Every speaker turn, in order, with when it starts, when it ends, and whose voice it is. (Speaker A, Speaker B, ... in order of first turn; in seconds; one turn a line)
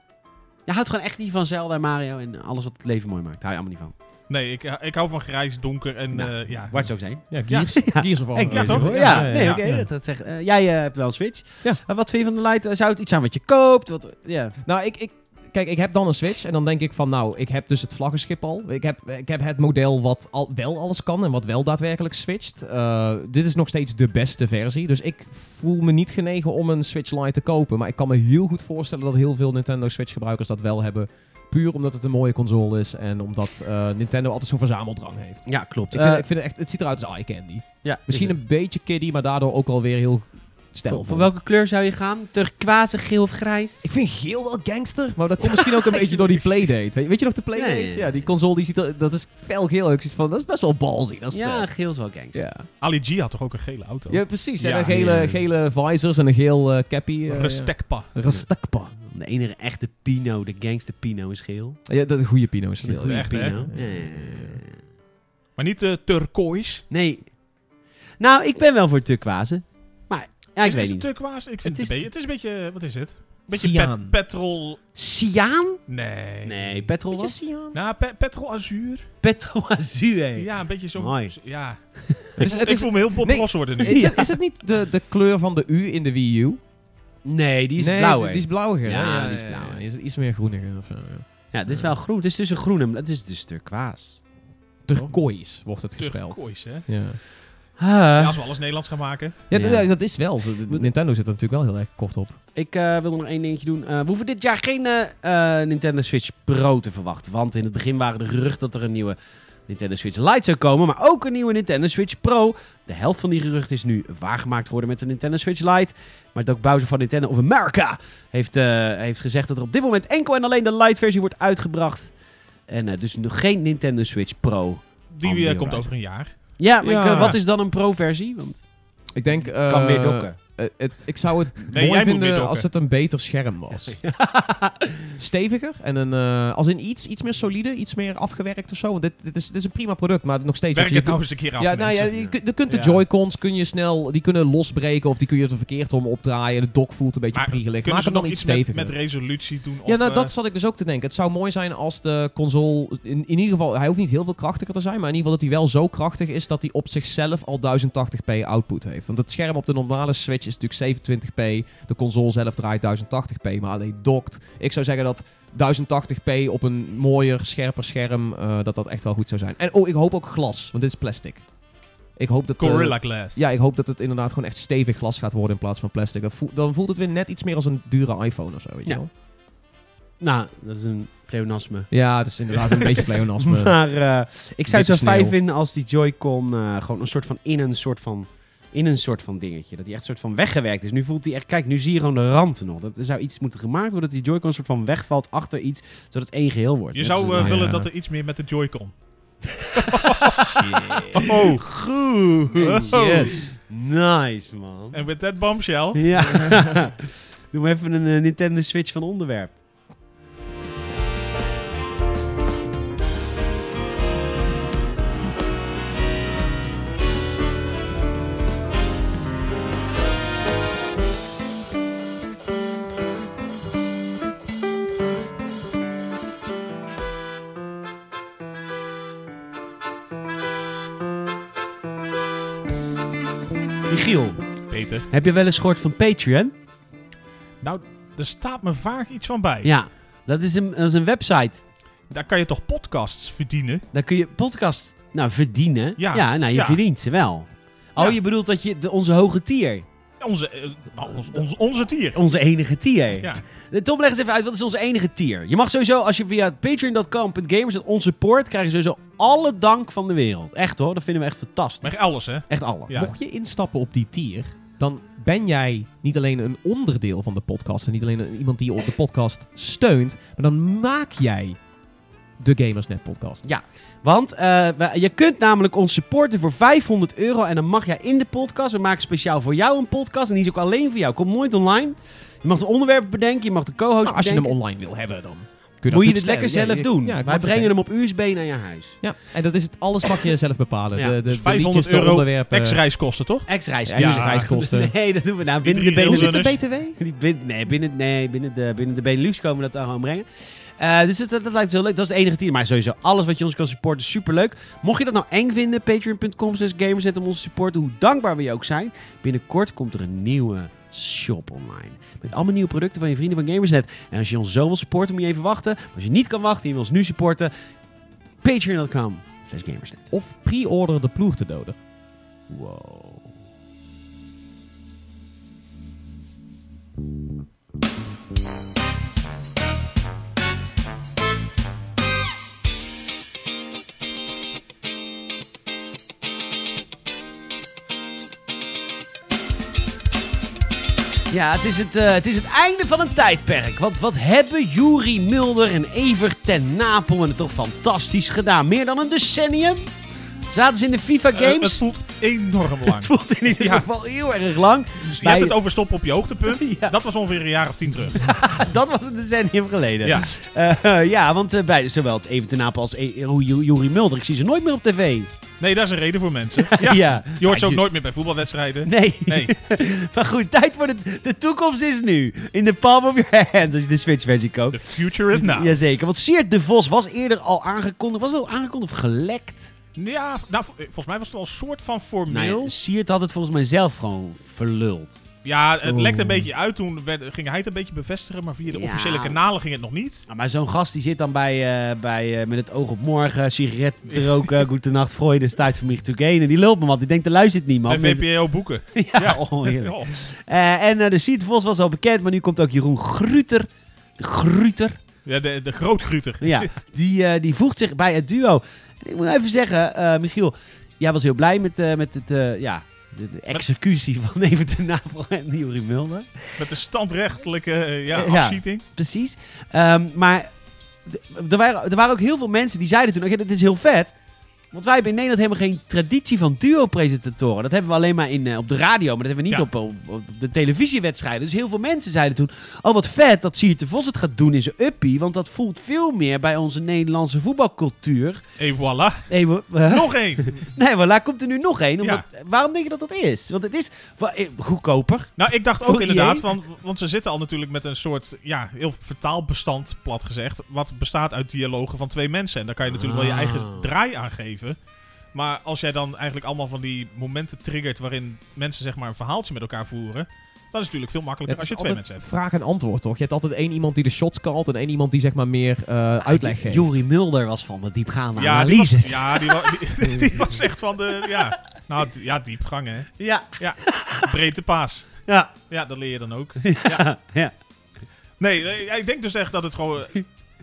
Speaker A: 0.7-3.9
Speaker B: 4.3-6.9
Speaker A: 6.2-14.6
Speaker C: 7.3-9.9
Speaker B: 7.5-9.6
Speaker C: 14.7-41.3
Speaker A: 35.5-36.2
Speaker A: 37.8-38.4
Speaker A: 40.9-43.9
Speaker C: 43.8-51.7
Speaker A: 45.4-46.4
Speaker A: 47.5-48.3
Speaker A: 51.3-52.4
Speaker C: 52.3-52.7
Speaker B: 52.8-55.4
Speaker C: 54.1-59.0
Speaker B: 57.3-58.1
Speaker A: 59.0-61.8
Speaker C: 61.9-64.6
Speaker A: 62.9-64.8
Speaker B: 62.9-63.6
Speaker B: 65.6-66.8
Speaker A: 66.9-67.3
Speaker A: 68.2-71.1
Speaker B: 70.7-74.8
Speaker A: 71.6-72.0
Speaker C: 73.5-74.2
Speaker A: 75.0-75.8
Speaker B: 75.9-76.9
Speaker A: 76.4-77.4
Speaker C: 77.1-77.8
Speaker B: 77.7-79.1
Speaker A: 79.2-81.3
Speaker B: 80.4-84.1
Speaker C: 82.4-86.6
Speaker A: 83.8-84.3
Speaker A: 87.2-89.8
Speaker C: 87.8-91.9
Speaker A: 91.5-94.2
Speaker C: 94.9-97.2
Speaker B: 96.0-96.9
Speaker A: 97.8-98.4
Speaker B: 98.2-99.4
Speaker C: 99.5-102.4
Speaker A: 99.5-100.1
Speaker A: 102.5-109.2
Speaker A: 109.7-122.1
Speaker A: 122.7-125.9
Speaker B: 125.1-126.3
Speaker A: 126.6-128.7
Speaker C: 126.8-127.4
Speaker C: 129.2-134.0
Speaker A: 129.6-130.4
Speaker B: 131.7-132.7
Speaker A: 133.7-135.1
Speaker C: 135.2-148.9
Speaker B: 140.7-142.2
Speaker B: 142.7-143.0
Speaker B: 147.3-150.3
Speaker C: 149.8-171.5
Speaker C: 172.2-179.1
Speaker B: 172.6-173.5
Speaker A: 180.2-181.9
Speaker C: 181.9-183.8
Speaker A: 183.4-197.7
Speaker C: 184.7-185.3
Speaker B: 197.0-198.9
Speaker C: 197.2-197.9
Speaker B: 199.8-200.6
Speaker A: 199.8-205.0
Speaker C: 200.4-201.3
Speaker B: 201.1-201.8
Speaker B: 202.5-203.4
Speaker C: 202.9-203.5
Speaker B: 204.9-206.4
Speaker A: 205.9-209.6
Speaker C: 206.2-206.8
Speaker A: 233.9-234.4
Speaker B: 234.7-235.1
Speaker A: 235.1-236.5
Speaker B: 237.6-239.7
Speaker A: 239.6-241.6
Speaker B: 242.1-243.8
Speaker A: 243.9-249.9
Speaker B: 246.0-246.8
Speaker B: 250.2-252.2
Speaker A: 252.1-261.9
Speaker B: 261.8-263.1
Speaker A: 262.5-262.9
Speaker C: 262.9-271.6
Speaker C: 272.4-273.4
Speaker A: 273.4-284.5
Speaker C: 284.1-287.7
Speaker A: 285.9-289.0
Speaker C: 289.0-292.8
Speaker B: 291.2-294.5
Speaker A: 293.5-317.5
Speaker C: 293.9-294.9
Speaker B: 295.6-296.6
Speaker C: 296.1-297.0
Speaker A: 318.4-320.1
Speaker C: 320.1-321.8
Speaker A: 322.5-323.3
Speaker A: 341.3-349.9
Speaker A: 350.5-351.8
Speaker B: 351.3-353.9
Speaker A: 352.9-355.6
Speaker B: 355.1-358.3
Speaker A: 356.5-357.0
Speaker A: 358.2-365.3
Speaker B: 360.0-360.3
Speaker B: 365.6-369.5
Speaker A: 366.6-367.6
Speaker C: 367.5-367.8
Speaker A: 368.9-379.7
Speaker B: 374.7-375.8
Speaker B: 380.0-382.8
Speaker A: 382.3-385.2
Speaker B: 385.4-390.2
Speaker C: 385.8-386.5
Speaker A: 388.7-389.4
Speaker A: 390.3-398.2
Speaker B: 394.1-394.6
Speaker B: 397.9-400.2
Speaker A: 398.9-403.7
Speaker A: 404.2-405.0
Speaker B: 405.3-406.7
Speaker A: 406.4-416.6
Speaker B: 416.6-418.8
Speaker A: 418.1-420.5
Speaker A: 421.1-424.1
Speaker A: 424.7-438.4
Speaker B: 438.6-439.3
Speaker A: 439.3-446.5
Speaker B: 439.8-440.6
Speaker B: 445.4-454.8
Speaker A: 452.9-453.9
Speaker B: 455.3-462.2
Speaker C: 461.5-467.0
Speaker A: 466.3-470.5
Speaker B: 468.4-477.1
Speaker A: 473.2-474.2
Speaker A: 475.3-475.5
Speaker A: 476.6-477.5
Speaker B: 478.4-480.3